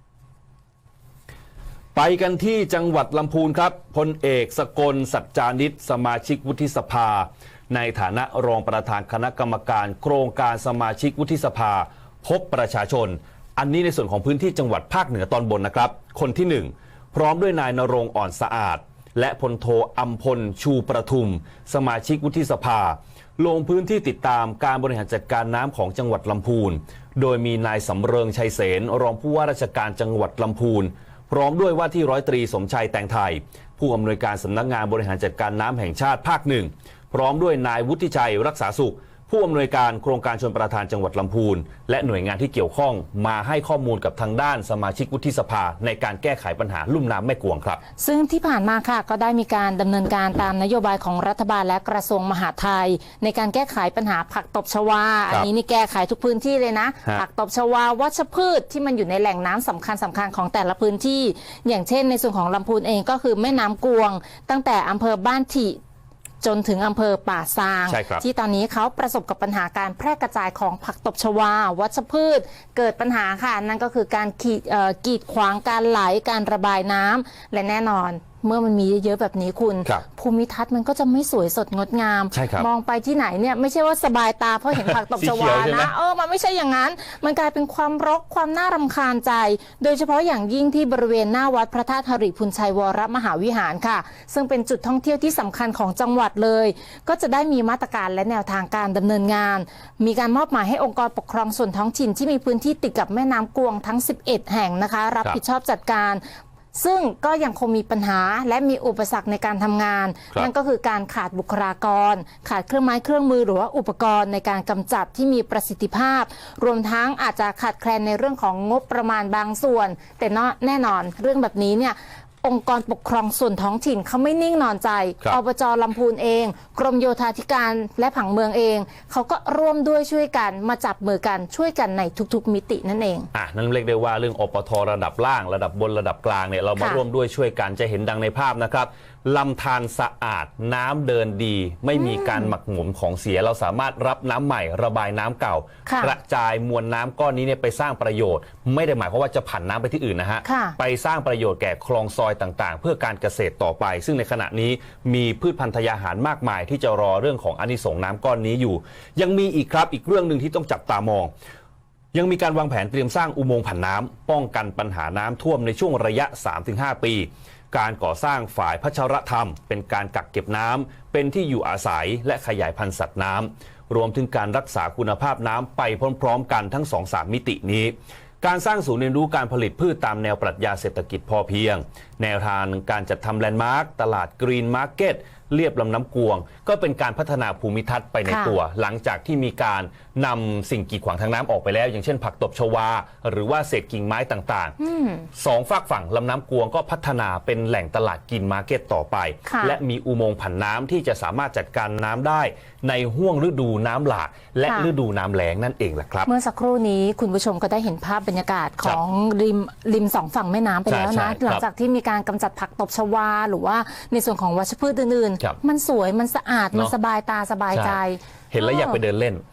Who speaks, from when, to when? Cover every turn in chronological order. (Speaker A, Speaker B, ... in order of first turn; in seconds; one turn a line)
Speaker A: 1.9-47.8
Speaker B: 48.0-65.8
Speaker B: 66.4-106.2
Speaker A: 67.9-68.2
Speaker A: 82.3-82.7
Speaker A: 84.9-85.9
Speaker B: 106.7-133.3
Speaker A: 133.3-161.3
Speaker B: 136.8-137.0
Speaker B: 145.9-146.2
Speaker B: 150.4-150.8
Speaker A: 162.1-194.8
Speaker B: 188.3-188.6
Speaker B: 194.8-195.3
Speaker A: 195.3-206.3
Speaker B: 199.5-199.8
Speaker B: 206.2-219.0
Speaker A: 210.9-211.6
Speaker A: 217.7-218.0
Speaker A: 218.5-219.4